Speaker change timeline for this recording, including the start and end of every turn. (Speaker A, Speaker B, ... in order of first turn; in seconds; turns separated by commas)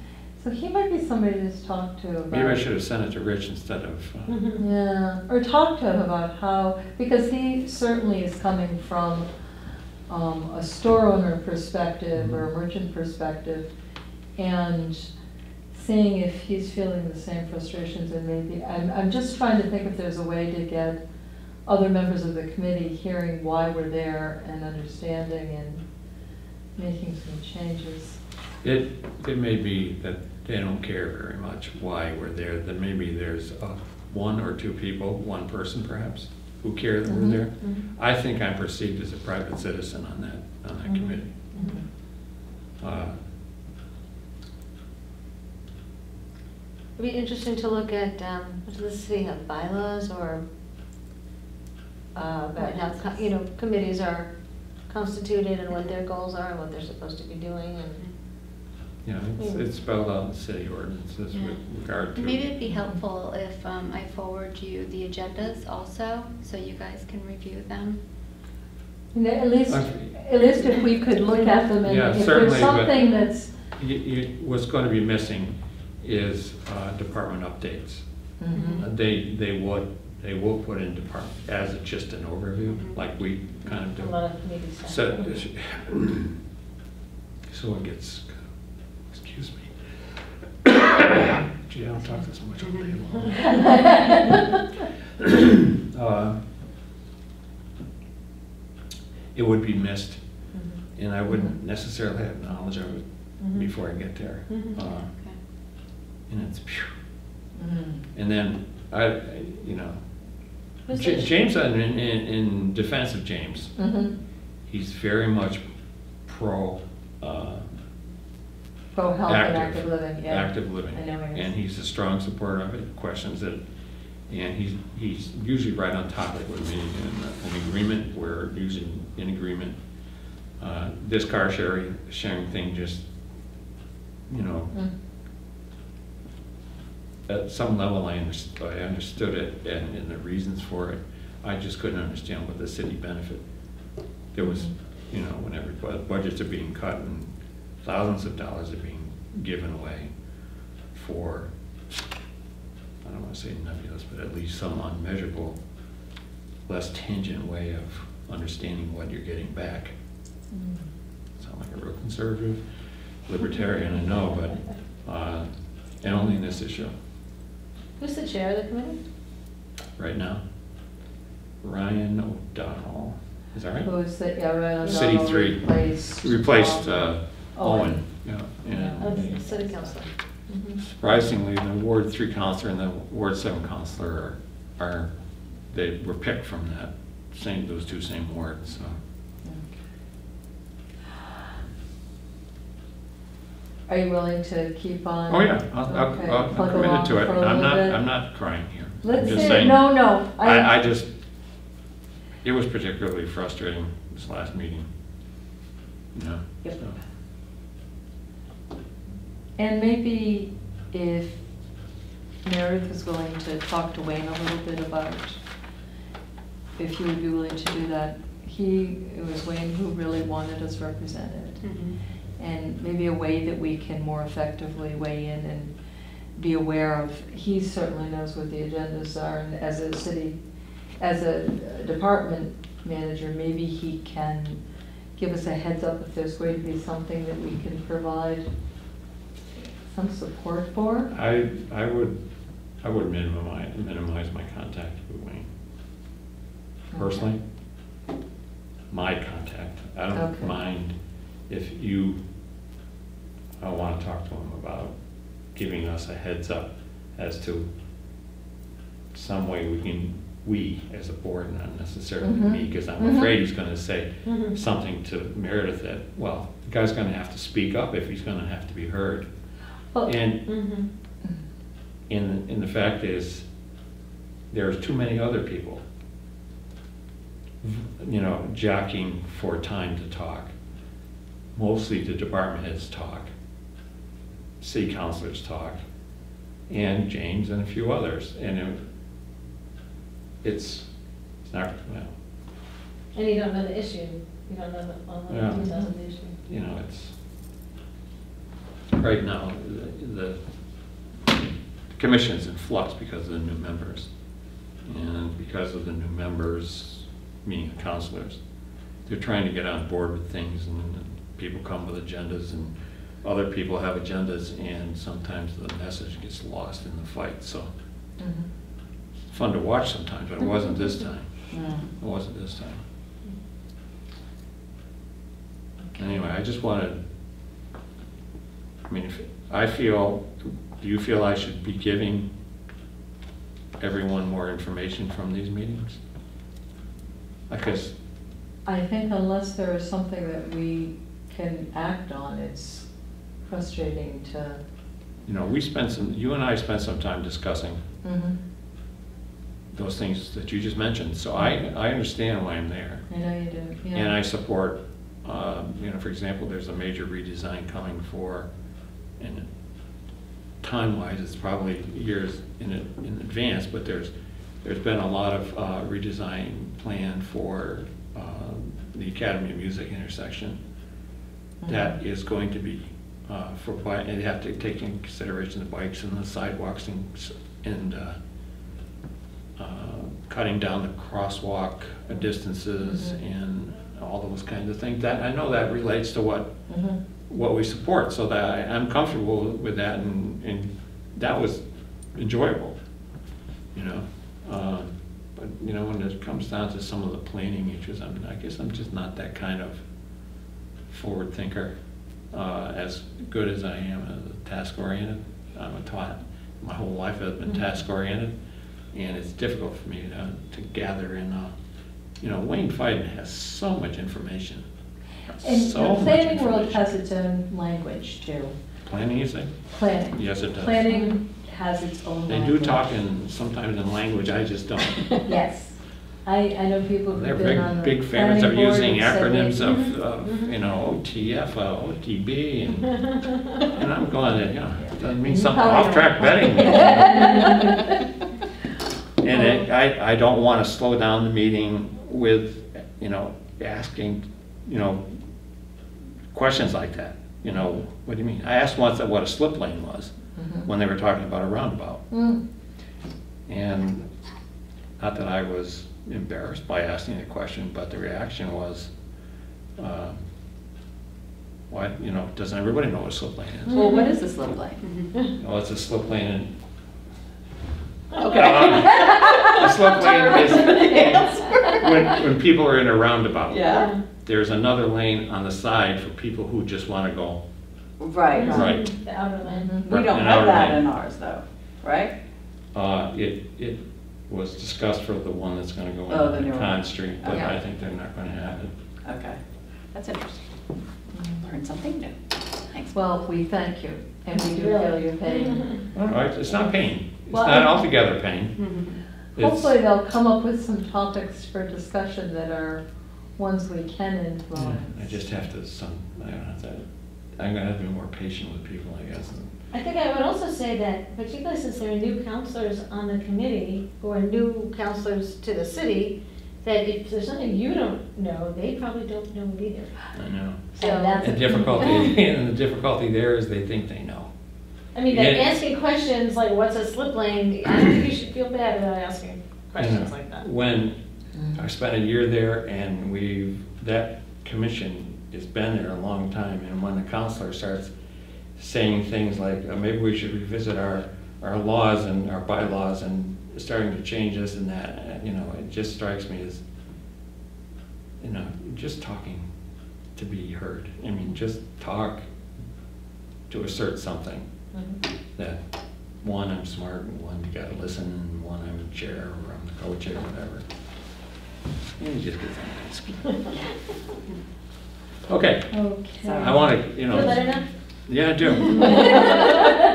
Speaker A: 0.4-2.6, Speaker B: 2.3-4.4, Speaker C: 4.3-4.6, Speaker A: 4.6-9.3, Speaker A: 10.1-13.7, Speaker A: 14.4-15.1, Speaker A: 15.7-21.0, Speaker A: 21.6-25.8, Speaker A: 26.8-28.2, Speaker B: 28.6-41.5, Speaker A: 37.1-37.4, Speaker A: 40.9-41.9, Speaker C: 41.5-41.8, Speaker B: 42.8-43.2, Speaker C: 47.0-50.4, Speaker C: 52.1-54.3, Speaker C: 54.9-58.0, Speaker B: 59.0-62.5, Speaker D: 62.1-68.0, Speaker A: 69.1-73.5, Speaker B: 69.7-70.2, Speaker B: 71.8-73.0, Speaker B: 73.8-78.0, Speaker A: 78.4-78.8, Speaker B: 78.7-84.2, Speaker D: 82.7-83.0, Speaker C: 84.0-85.3, Speaker B: 84.8-86.3, Speaker B: 87.5-88.4, Speaker B: 89.1-94.0, Speaker D: 92.6-92.9, Speaker C: 93.3-94.3, Speaker B: 95.2-96.4, Speaker B: 99.3-100.2, Speaker B: 101.0-105.1, Speaker A: 101.3-101.5, Speaker C: 103.4-103.7, Speaker C: 104.5-104.8, Speaker B: 106.3-106.9, Speaker A: 107.6-108.1, Speaker B: 108.1-110.0, Speaker C: 110.9-111.3, Speaker B: 110.9-113.7, Speaker A: 113.8-114.1, Speaker B: 114.7-115.7, Speaker B: 116.2-117.7, Speaker A: 118.9-121.5, Speaker B: 119.3-123.6, Speaker B: 124.3-129.8, Speaker B: 130.6-133.1, Speaker B: 134.3-134.8, Speaker B: 137.3-143.4, Speaker B: 144.3-147.3, Speaker A: 144.4-144.7, Speaker B: 147.8-150.1, Speaker B: 150.9-151.5, Speaker B: 153.0-155.6, Speaker B: 156.7-159.9, Speaker A: 160.5-160.8, Speaker B: 161.4-162.6, Speaker B: 163.3-165.5, Speaker B: 166.0-166.9, Speaker C: 168.0-169.0, Speaker B: 170.0-170.4, Speaker B: 171.6-173.9, Speaker A: 173.8-178.0, Speaker B: 174.8-179.4, Speaker C: 174.9-175.3, Speaker A: 178.7-180.0, Speaker C: 179.0-180.8, Speaker B: 180.8-185.1, Speaker B: 185.7-189.0, Speaker A: 189.4-189.8, Speaker A: 193.9-198.0, Speaker B: 195.3-201.1, Speaker A: 199.0-200.7, Speaker B: 202.4-204.9, Speaker B: 206.1-207.0, Speaker A: 209.6-211.4, Speaker A: 212.4-215.4, Speaker A: 216.8-221.7, Speaker D: 221.6-222.0, Speaker A: 222.4-225.8, Speaker A: 226.4-230.4, Speaker A: 231.0-234.6, Speaker A: 235.2-238.5, Speaker A: 239.8-241.1, Speaker B: 241.1-242.2, Speaker B: 242.8-245.5, Speaker A: 246.9-247.2, Speaker B: 246.9-247.4, Speaker B: 248.9-250.9, Speaker A: 250.1-250.6, Speaker B: 251.5-252.2, Speaker B: 253.6-255.0, Speaker B: 255.5-257.7, Speaker B: 259.1-269.3, Speaker A: 262.2-263.3, Speaker C: 264.3-264.6, Speaker B: 270.0-270.4, Speaker C: 270.5-270.9, Speaker B: 272.1-273.5, Speaker B: 274.5-275.8, Speaker B: 277.6-280.5, Speaker B: 281.5-283.3, Speaker B: 284.6-285.8, Speaker B: 286.7-288.8, Speaker B: 290.4-290.9, Speaker B: 291.4-292.1, Speaker C: 293.1-296.4, Speaker B: 295.3-295.7, Speaker A: 295.6-295.9, Speaker B: 296.4-297.1, Speaker B: 298.9-300.4, Speaker B: 302.0-304.1, Speaker B: 304.8-308.4, Speaker B: 309.1-317.7, Speaker A: 318.2-318.5, Speaker B: 319.3-322.8, Speaker A: 321.5-321.9, Speaker B: 326.0-327.0, Speaker B: 328.9-332.3, Speaker B: 333.8-336.0, Speaker B: 337.5-337.9, Speaker A: 338.7-342.9, Speaker A: 343.5-344.6, Speaker B: 345.2-347.8, Speaker A: 348.0-348.4, Speaker B: 349.7-353.1, Speaker A: 353.1-354.1, Speaker B: 353.9-358.5, Speaker B: 359.2-359.5, Speaker B: 360.6-364.1, Speaker B: 364.6-370.6, Speaker A: 371.6-371.9, Speaker B: 371.7-378.2, Speaker B: 379.6-386.5, Speaker A: 382.8-383.2, Speaker A: 386.7-387.0, Speaker B: 387.3-391.6, Speaker B: 392.1-392.8, Speaker B: 393.7-399.8, Speaker B: 400.9-401.8, Speaker B: 402.3-408.3, Speaker B: 408.9-411.5, Speaker B: 412.2-414.6, Speaker B: 415.4-416.9, Speaker A: 415.4-418.6, Speaker B: 418.9-419.6, Speaker A: 419.7-422.8, Speaker B: 420.1-420.9, Speaker C: 420.9-421.2, Speaker B: 422.3-425.0, Speaker A: 425.3-429.7, Speaker B: 427.1-437.8, Speaker C: 429.7-430.5, Speaker A: 435.2-437.9, Speaker B: 439.2-445.1, Speaker B: 446.3-452.0, Speaker A: 450.4-450.7, Speaker A: 452.1-452.4, Speaker B: 453.5-454.1, Speaker B: 455.0-458.9, Speaker B: 459.8-460.2, Speaker B: 461.7-463.9, Speaker E: 463.7-464.8, Speaker D: 464.8-465.1, Speaker B: 465.4-466.5, Speaker E: 468.2-472.2, Speaker B: 468.3-473.7, Speaker E: 473.5-473.9, Speaker C: 473.7-474.0, Speaker B: 474.2-477.4, Speaker E: 478.0-478.7, Speaker A: 478.4-478.7, Speaker B: 478.5-478.9, Speaker C: 478.5-479.8, Speaker A: 479.6-479.9, Speaker E: 479.8-482.1, Speaker B: 479.9-480.9, Speaker B: 482.7-488.7, Speaker E: 486.1-487.6, Speaker E: 489.1-489.4, Speaker E: 489.9-490.6, Speaker A: 491.1-491.5, Speaker E: 491.4-493.0, Speaker A: 492.9-495.8, Speaker C: 494.4-495.8, Speaker B: 496.0-498.7, Speaker A: 497.3-497.8, Speaker D: 498.6-499.0, Speaker B: 499.4-499.7, Speaker A: 499.4-505.2, Speaker B: 504.6-509.5, Speaker C: 509.7-520.1, Speaker B: 520.1-524.3, Speaker C: 520.7-522.1, Speaker C: 524.9-530.5, Speaker B: 525.1-525.6, Speaker B: 529.8-531.0, Speaker A: 531.4-531.6, Speaker B: 531.5-537.9, Speaker B: 538.6-546.6, Speaker B: 548.2-549.5, Speaker B: 550.1-552.3, Speaker B: 553.5-554.5, Speaker C: 554.7-555.0, Speaker B: 555.4-555.6, Speaker B: 556.2-560.6, Speaker B: 562.0-563.5, Speaker B: 565.3-567.4, Speaker A: 565.7-567.2, Speaker E: 566.2-566.7, Speaker C: 567.1-567.6, Speaker B: 568.1-569.3, Speaker C: 568.8-569.7